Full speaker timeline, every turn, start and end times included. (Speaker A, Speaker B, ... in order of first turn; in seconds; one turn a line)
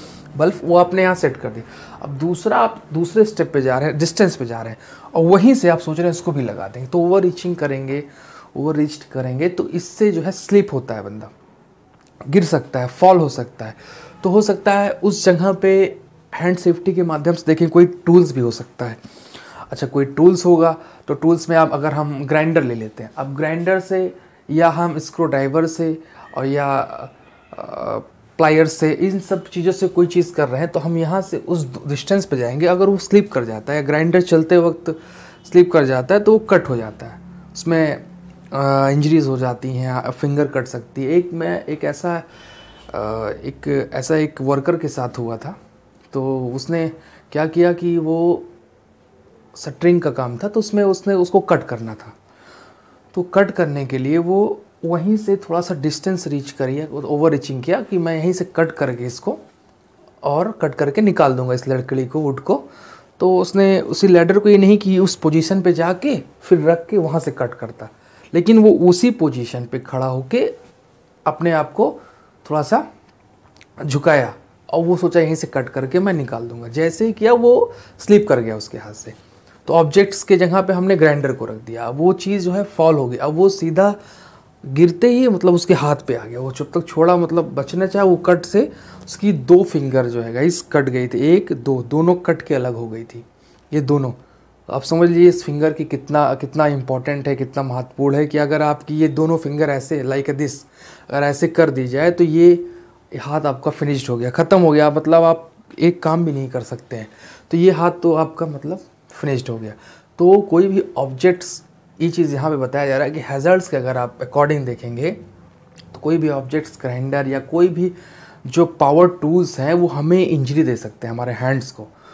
Speaker A: 0.3-11.3
Speaker A: 12.3-19.0
Speaker A: 19.7-42.2
Speaker A: 42.9-45.6
Speaker A: 46.1-48.5
Speaker A: 49.5-52.1
Speaker A: 53.1-59.4
Speaker A: 60.2-70.6
Speaker A: 71.2-72.8
Speaker A: 73.8-79.1
Speaker A: 79.7-84.0
Speaker A: 84.6-115.2
Speaker A: 115.9-121.9